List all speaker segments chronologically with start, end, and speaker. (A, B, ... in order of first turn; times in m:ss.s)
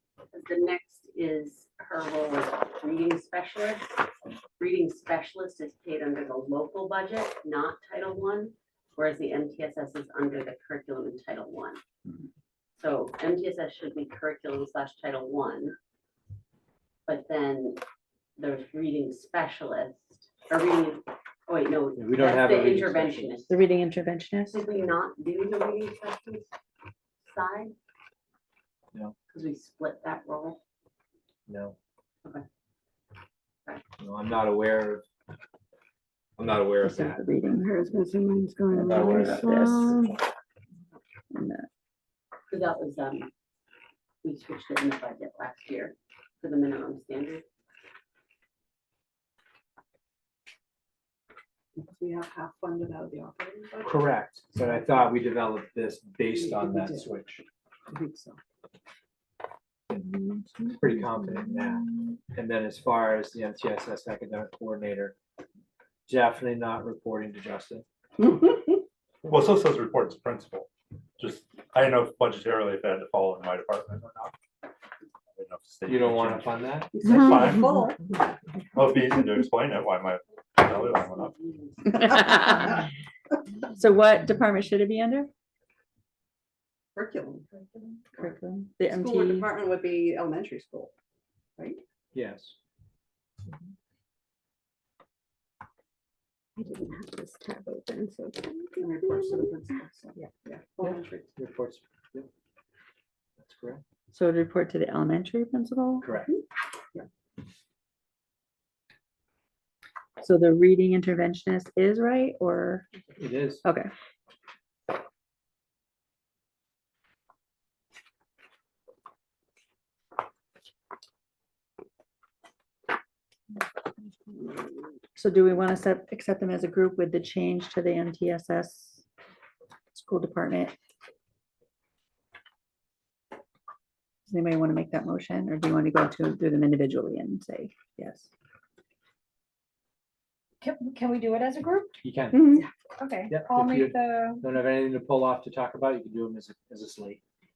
0:00.3-0:11.8 A
0:12.8-0:15.8 A
0:17.1-0:17.8 A
0:18.4-0:23.6 A
0:22.0-0:23.5 B
0:23.5-0:24.6 C
0:24.5-0:26.5 A
0:27.2-0:27.7 A
0:29.3-0:30.6 A
0:31.5-0:31.8 B
0:34.0-0:35.0 B
0:36.4-0:37.2 B
0:36.8-0:37.7 C
0:37.5-0:40.2 D
0:38.7-0:39.4 B
0:38.8-0:40.0 C
0:41.3-0:41.7 C
0:42.5-0:43.3 A
0:44.2-0:47.4 A
0:51.8-0:54.9 E
0:53.8-0:57.4 B
0:56.3-0:57.1 E
0:57.9-0:58.4 E
0:59.9-1:05.2 B
1:06.1-1:07.8 B
1:09.2-1:14.3 F
1:15.3-1:17.9 F
1:15.8-1:17.0 B
1:16.9-1:18.0 E
1:18.7-1:21.3 F
1:20.7-1:22.5 A
1:21.9-1:22.8 C
1:23.7-1:25.3 C
1:26.9-1:28.3 E
1:28.2-1:29.5 C
1:28.9-1:30.9 E
1:32.1-1:32.6 B
1:36.6-1:39.5 D
1:38.8-1:41.3 E
1:41.4-1:42.3 B
1:43.4-1:43.8 B
1:44.1-1:46.1 C
1:46.0-1:46.4 B
1:50.2-1:52.9 C
1:53.2-1:53.6 B
1:53.6-1:53.9 C
2:05.1-2:09.0 C
2:09.9-2:10.8 C
2:14.3-2:18.3 C
2:20.6-2:22.0 G
2:22.0-2:22.6 B
2:22.3-2:22.6 C
2:23.0-2:24.5 G
2:23.3-2:27.2 B